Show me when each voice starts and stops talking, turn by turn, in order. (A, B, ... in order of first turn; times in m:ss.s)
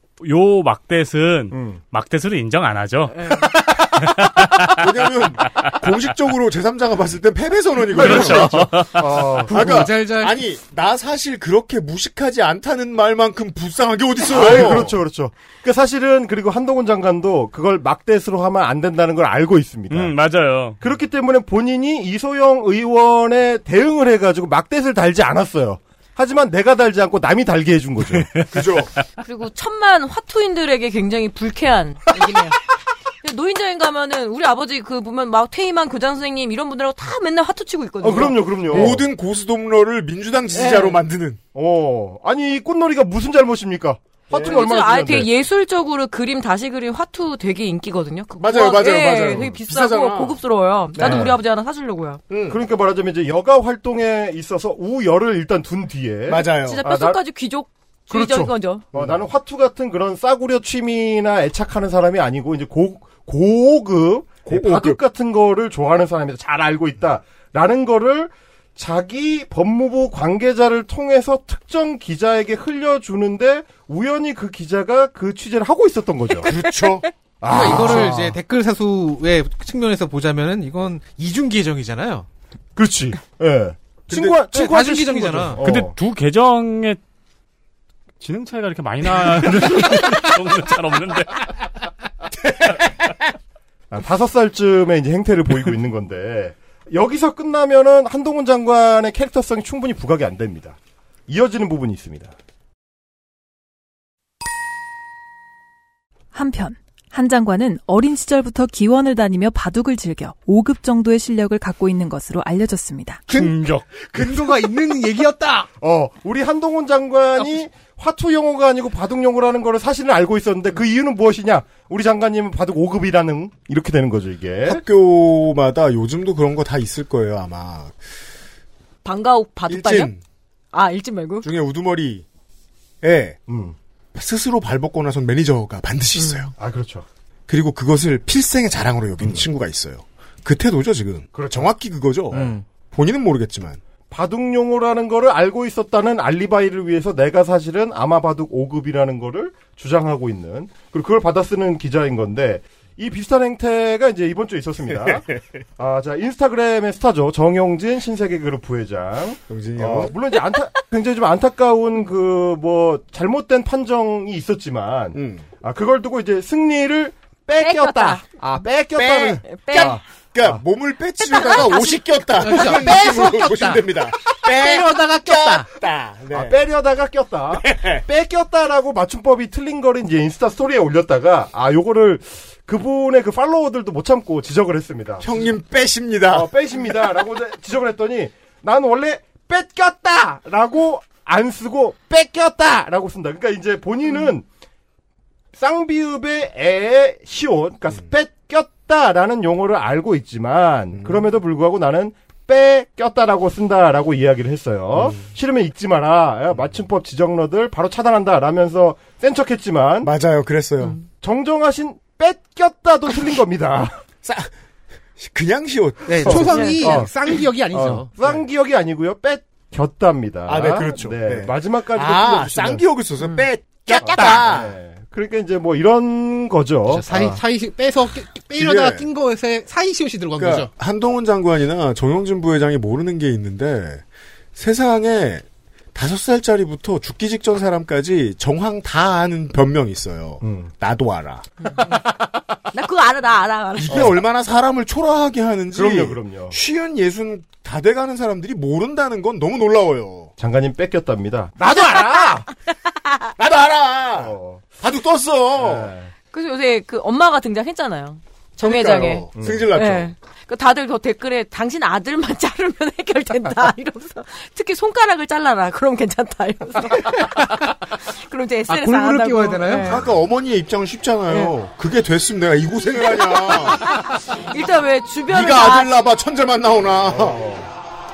0:00.2-0:04.7 A
0:01.5-0:01.8 B
0:03.1-0:03.5 C
0:04.6-0:08.7 D
0:07.9-0:09.8 B
0:08.0-0:09.1 A
0:09.4-0:10.4 E
0:09.5-0:15.0 D
0:14.2-0:20.1 B
0:19.9-0:20.8 A
0:20.8-0:28.4 B
0:28.5-0:28.9 D
0:29.2-0:32.6 C
0:33.2-0:38.8 C
0:38.0-0:39.0 B
0:38.7-0:41.4 D
0:40.5-0:41.0 C
0:41.5-0:45.3 B
0:44.3-0:52.2 C
0:44.3-0:44.6 D
0:48.4-0:50.4 D
0:50.9-0:51.4 D
0:51.0-0:51.4 B
0:52.3-0:52.6 D
0:52.5-0:57.2 B
0:56.3-0:56.8 D
0:56.5-0:58.8 C
0:58.1-1:16.5 B
0:58.9-0:59.2 D
1:04.4-1:05.0 D
1:16.4-1:17.1 D
1:17.4-1:18.4 B
1:17.4-1:22.3 E
1:22.8-1:25.9 B
1:24.1-1:24.4 D
1:24.5-1:25.6 E
1:25.6-1:27.0 A
1:28.2-1:31.6 A
1:33.9-1:42.3 B
1:46.3-1:53.2 F
1:53.3-1:53.8 A
1:53.3-1:55.7 E
1:55.8-2:04.8 B
2:04.6-2:07.9 D
2:09.0-2:10.1 C
2:09.7-2:10.2 D
2:10.7-2:11.5 C
2:11.4-2:12.2 D
2:13.0-2:13.4 D
2:13.5-2:13.8 B
2:14.1-2:16.5 D
2:16.6-2:17.0 B
2:17.5-2:23.8 D
2:21.3-2:21.7 B
2:22.3-2:22.6 B
2:22.3-2:22.6 E
2:24.1-2:50.6 B
2:35.0-2:35.4 D
2:39.5-2:40.1 D
2:45.1-2:45.4 D
2:47.6-2:48.2 C
2:49.0-2:50.0 C
2:49.6-2:56.6 D
2:51.3-2:52.1 C
2:52.4-2:55.6 E
2:56.3-3:05.4 B
2:57.5-2:58.0 D
3:05.2-3:06.5 D
3:06.3-3:14.4 B
3:15.6-3:30.1 B
3:21.0-3:21.2 D
3:30.0-3:31.0 D
3:31.1-3:34.0 B
3:34.2-3:34.5 D
3:35.2-3:36.6 D
3:36.1-3:38.1 E
3:36.2-3:37.1 B
3:36.5-3:36.9 C
3:37.7-3:42.8 B
3:40.5-3:44.7 D
3:43.9-3:47.4 B
3:46.9-3:50.7 E
3:48.5-3:49.1 D
3:50.4-3:54.0 D
3:54.5-4:01.5 D
4:00.4-4:00.7 B
4:02.7-4:04.1 C
4:03.8-4:10.3 D
4:05.7-4:06.6 B
4:10.4-4:12.5 B
4:13.4-4:15.9 D
4:14.2-4:14.6 B
4:15.6-4:16.1 B
4:16.3-4:30.0 C
4:18.6-4:20.1 D
4:19.4-4:19.7 B
4:27.0-4:27.7 E
4:28.7-4:30.0 E
4:29.8-4:33.8 D
4:33.3-4:36.0 C
4:35.3-4:37.4 D
4:37.1-4:37.7 B